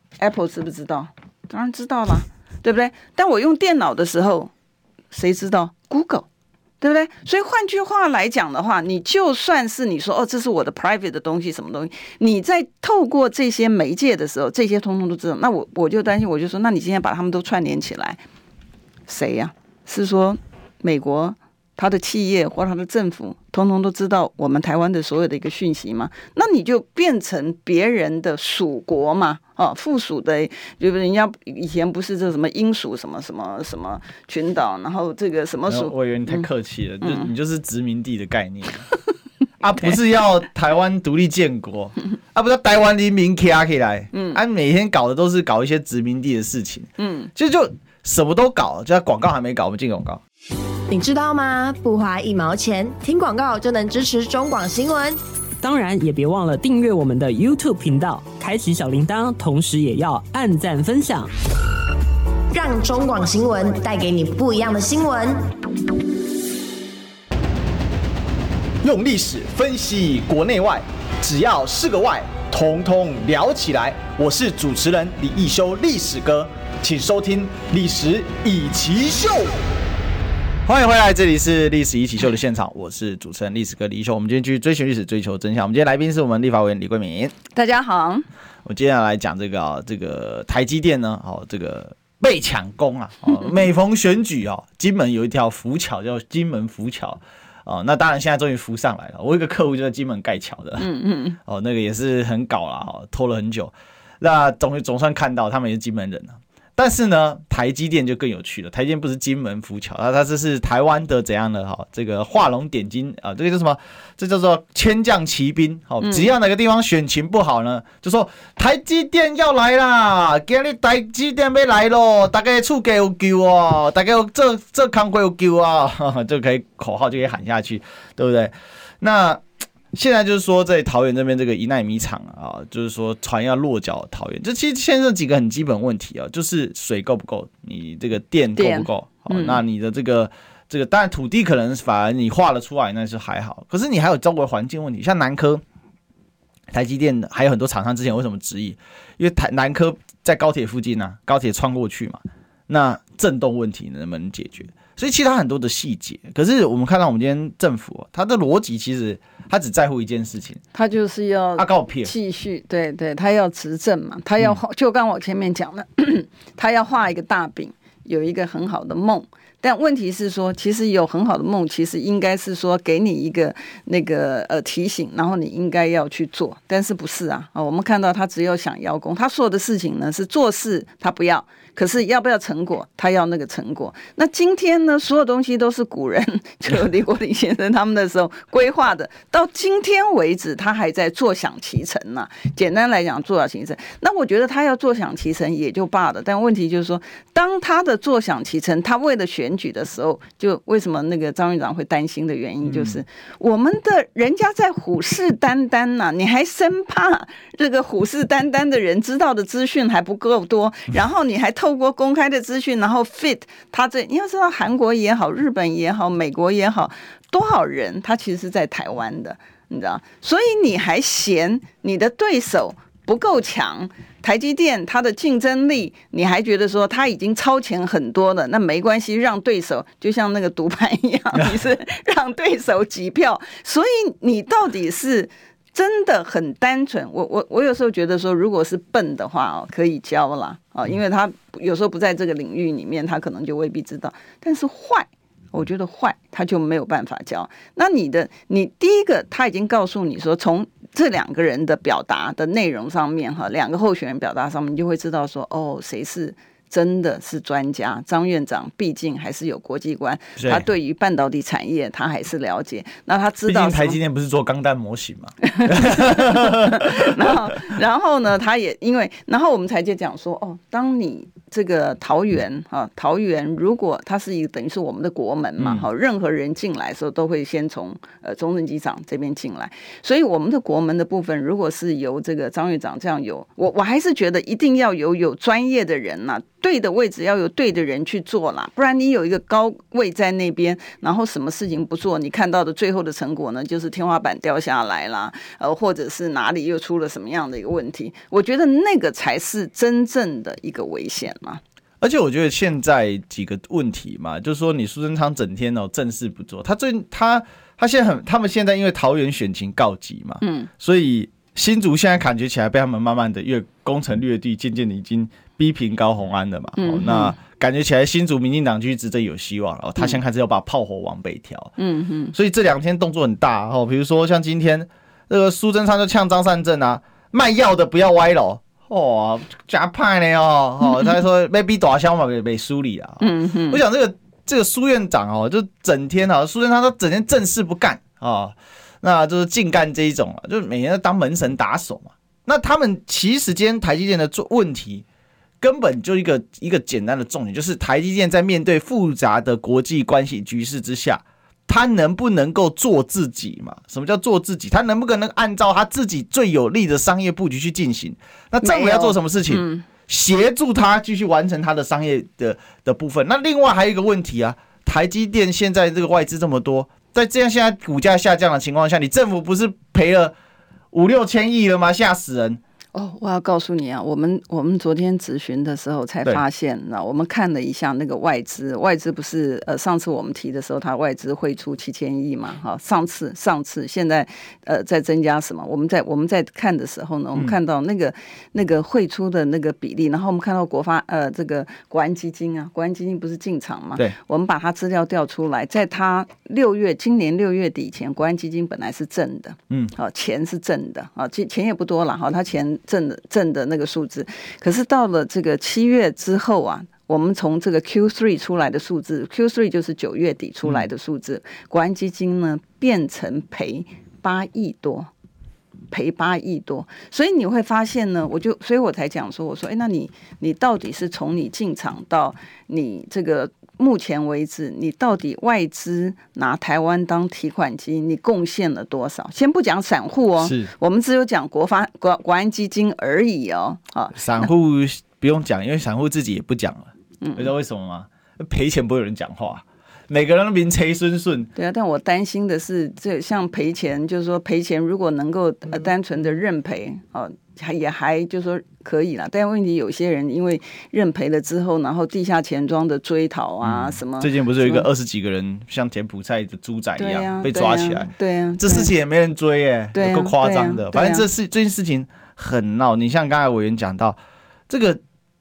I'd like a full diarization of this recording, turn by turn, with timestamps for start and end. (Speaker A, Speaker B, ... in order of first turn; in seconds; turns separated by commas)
Speaker A: 0.2-4.5, Speaker A: 5.1-6.3, Speaker A: 6.8-18.2, Speaker A: 19.1-36.5, Speaker B: 35.7-38.9, Speaker B: 39.6-50.2, Speaker A: 44.1-44.4, Speaker A: 47.0-47.3, Speaker C: 50.9-55.2, Speaker D: 55.6-61.3, Speaker C: 62.5-65.5, Speaker E: 68.8-79.5, Speaker B: 80.7-87.3, Speaker A: 87.5-88.3, Speaker B: 88.7-100.9, Speaker A: 100.8-101.4, Speaker B: 101.5-145.6, Speaker A: 116.0-116.3, Speaker A: 138.6-139.6, Speaker B: 146.7-160.6, Speaker A: 160.7-264.0, Speaker B: 161.6-162.1, Speaker B: 202.7-203.0, Speaker B: 260.4-260.6, Speaker B: 263.5-267.5, Speaker A: 265.4-301.6, Speaker B: 275.6-275.9, Speaker B: 302.0-321.7, Speaker A: 310.4-310.7, Speaker A: 316.8-317.4, Speaker A: 321.8-322.4, Speaker B: 322.3-345.1, Speaker A: 330.8-331.2, Speaker A: 333.2-333.8, Speaker B: 345.6-370.3, Speaker A: 358.6-359.9, Speaker B: 370.9-372.6, Speaker A: 372.9-415.1, Speaker A: 415.9-434.5, Speaker B: 430.4-430.7, Speaker B: 434.1-441.5, Speaker A: 437.2-437.5, Speaker A: 441.6-454.9, Speaker B: 453.6-464.2, Speaker A: 457.0-458.9, Speaker A: 459.9-461.2, Speaker B: 464.7-465.0